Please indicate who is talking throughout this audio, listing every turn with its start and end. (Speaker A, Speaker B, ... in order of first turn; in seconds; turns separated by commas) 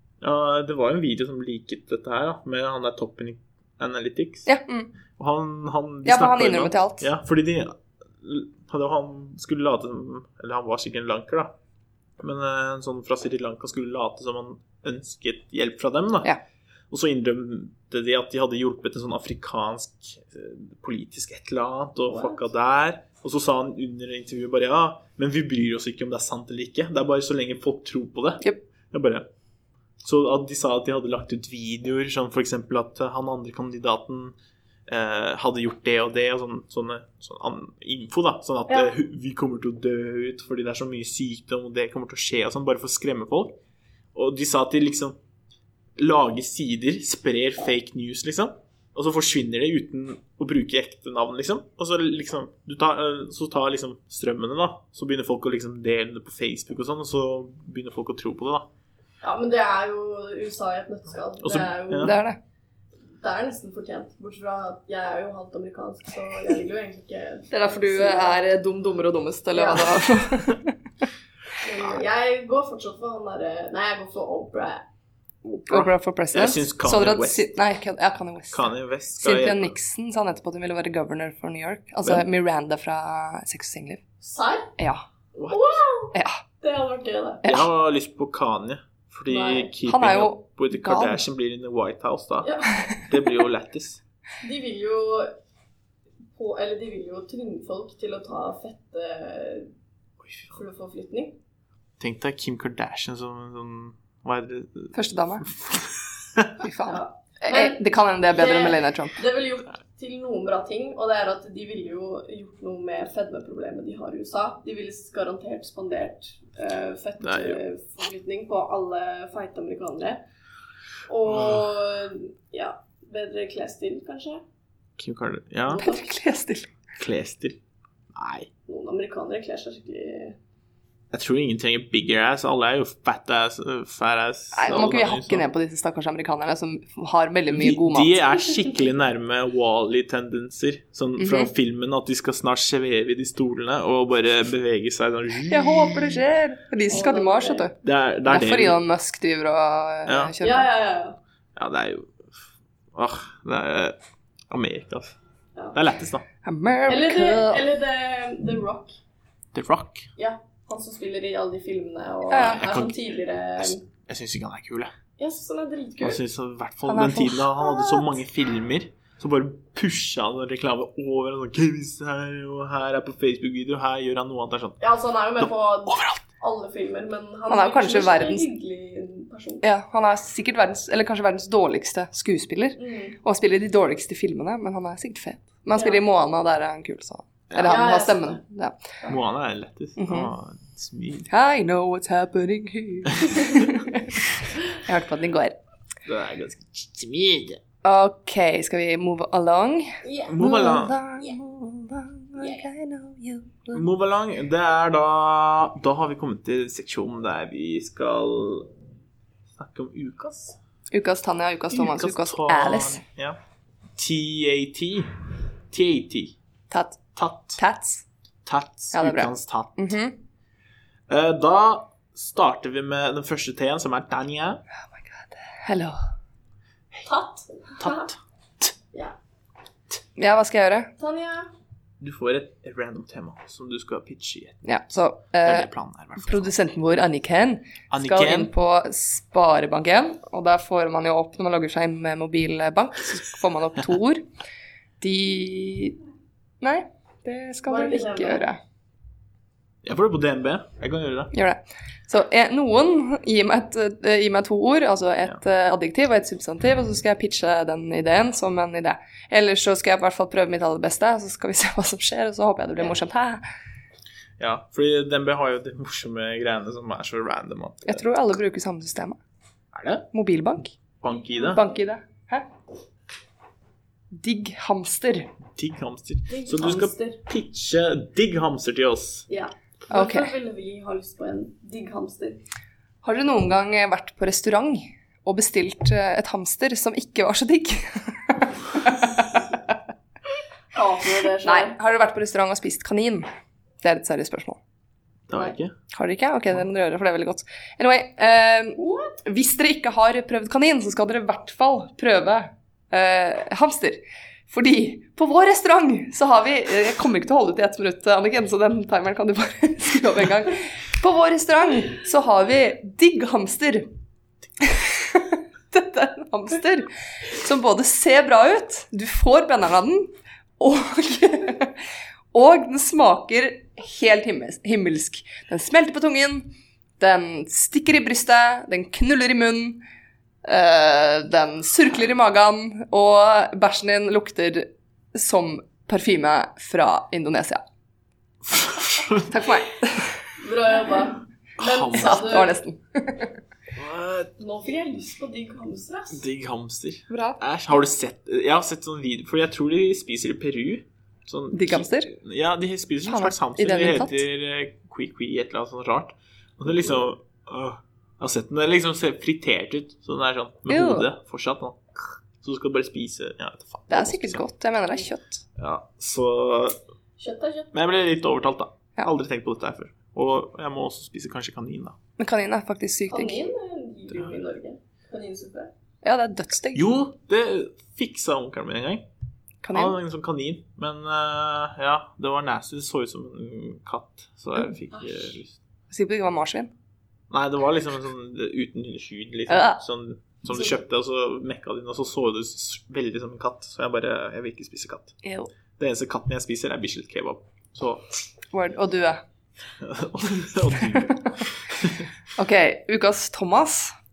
Speaker A: 0.2-4.5, Speaker B: 4.5-4.9, Speaker A: 5.2-11.5, Speaker B: 6.0-7.1, Speaker A: 12.2-16.3, Speaker A: 16.9-29.3, Speaker C: 22.1-22.4, Speaker A: 30.0-34.4, Speaker A: 34.9-43.6, Speaker A: 44.1-45.2, Speaker A: 46.0-58.7, Speaker C: 59.2-62.2, Speaker A: 61.4-62.2, Speaker B: 62.0-62.4, Speaker C: 63.2-68.4, Speaker B: 67.5-70.8, Speaker C: 69.5-70.0, Speaker C: 71.6-74.8, Speaker A: 75.4-77.5, Speaker B: 75.7-84.0, Speaker A: 78.5-79.8, Speaker C: 84.2-84.7, Speaker B: 84.8-85.0, Speaker A: 85.3-85.8, Speaker C: 85.5-87.4, Speaker B: 86.1-86.4, Speaker A: 87.4-94.0, Speaker C: 89.3-89.7, Speaker B: 89.9-91.2, Speaker C: 92.4-92.7, Speaker C: 94.4-95.3, Speaker C: 96.4-99.7, Speaker A: 100.2-100.5, Speaker C: 100.5-101.4, Speaker A: 102.0-106.5, Speaker B: 104.9-105.5, Speaker B: 106.6-109.2, Speaker C: 106.9-120.2, Speaker A: 117.2-117.6, Speaker C: 121.1-124.4, Speaker A: 121.3-121.7, Speaker A: 125.0-125.8, Speaker C: 125.7-126.0, Speaker B: 125.7-126.7, Speaker A: 127.0-127.6, Speaker A: 128.1-128.5, Speaker C: 128.7-130.4, Speaker A: 131.1-135.5, Speaker B: 134.5-138.2, Speaker A: 137.5-146.2, Speaker B: 141.2-141.5, Speaker B: 145.5-147.8, Speaker C: 146.9-147.7, Speaker A: 147.8-148.8, Speaker B: 148.3-150.7, Speaker A: 150.1-150.3, Speaker C: 150.4-151.2, Speaker A: 151.6-152.4, Speaker A: 152.9-154.0, Speaker A: 154.5-155.2, Speaker A: 155.7-156.2, Speaker B: 156.4-157.6, Speaker C: 156.9-159.0, Speaker A: 159.5-160.1, Speaker C: 160.2-163.8, Speaker B: 162.3-162.7, Speaker A: 162.4-162.9, Speaker A: 163.6-164.9, Speaker C: 165.2-166.2, Speaker A: 166.0-174.8, Speaker B: 166.9-168.0, Speaker C: 174.8-179.6, Speaker A: 175.4-176.2, Speaker B: 177.5-178.5, Speaker B: 179.6-188.8, Speaker C: 182.8-183.2, Speaker C: 185.8-186.0, Speaker C: 187.6-188.4, Speaker A: 189.1-191.3, Speaker B: 190.0-190.3, Speaker B: 191.3-194.2, Speaker B: 194.7-195.6, Speaker A: 196.1-197.6, Speaker B: 197.8-203.8, Speaker C: 200.0-200.5, Speaker A: 200.3-201.0, Speaker A: 203.7-208.7, Speaker A: 209.6-210.6, Speaker B: 210.9-213.0, Speaker A: 211.7-213.4, Speaker A: 214.0-215.2, Speaker A: 215.7-216.3, Speaker B: 216.7-217.0, Speaker A: 217.2-217.6, Speaker B: 217.6-218.0, Speaker A: 218.4-220.0, Speaker B: 218.9-220.2, Speaker A: 221.1-224.6, Speaker B: 224.9-226.0, Speaker C: 227.1-228.1, Speaker A: 227.8-228.7, Speaker B: 230.2-230.9, Speaker C: 231.0-231.5, Speaker A: 232.0-234.6, Speaker B: 234.6-244.2, Speaker A: 235.4-236.5, Speaker A: 237.9-238.5, Speaker B: 245.0-246.0, Speaker B: 246.6-248.6, Speaker C: 247.7-248.5, Speaker A: 249.8-251.3, Speaker B: 251.3-263.4, Speaker A: 264.4-268.0, Speaker B: 267.9-269.2, Speaker A: 269.7-270.1, Speaker B: 270.1-270.8, Speaker A: 271.0-271.6, Speaker B: 271.4-272.5, Speaker B: 274.1-275.3, Speaker A: 275.5-279.3, Speaker C: 276.3-277.2, Speaker C: 279.3-282.4, Speaker B: 279.9-280.3, Speaker B: 283.0-289.8, Speaker C: 290.7-291.8, Speaker B: 291.4-293.3, Speaker B: 293.8-294.6, Speaker A: 295.3-295.7, Speaker B: 295.9-313.9, Speaker C: 298.8-299.2, Speaker B: 314.6-321.8, Speaker B: 322.3-329.8, Speaker B: 330.4-337.6, Speaker A: 338.4-339.5, Speaker B: 339.3-340.2, Speaker C: 340.4-342.6, Speaker A: 341.6-342.4, Speaker B: 341.9-343.3, Speaker A: 343.8-344.3, Speaker C: 344.4-346.2, Speaker A: 346.1-364.4, Speaker B: 347.1-347.4, Speaker B: 351.5-352.1, Speaker B: 353.1-354.2, Speaker B: 360.7-361.1, Speaker B: 363.9-365.4, Speaker A: 365.6-366.8, Speaker C: 367.2-367.7, Speaker A: 367.7-372.0, Speaker B: 372.2-373.4, Speaker C: 373.1-375.7, Speaker A: 374.1-374.4, Speaker B: 376.0-376.9, Speaker A: 376.7-379.1, Speaker B: 379.6-380.0, Speaker A: 379.7-385.6, Speaker C: 384.9-385.3, Speaker B: 385.9-386.7, Speaker A: 387.3-395.1, Speaker B: 389.5-389.8, Speaker B: 395.2-395.5, Speaker A: 395.8-398.1, Speaker B: 398.5-399.2, Speaker A: 399.8-402.1, Speaker B: 402.4-404.0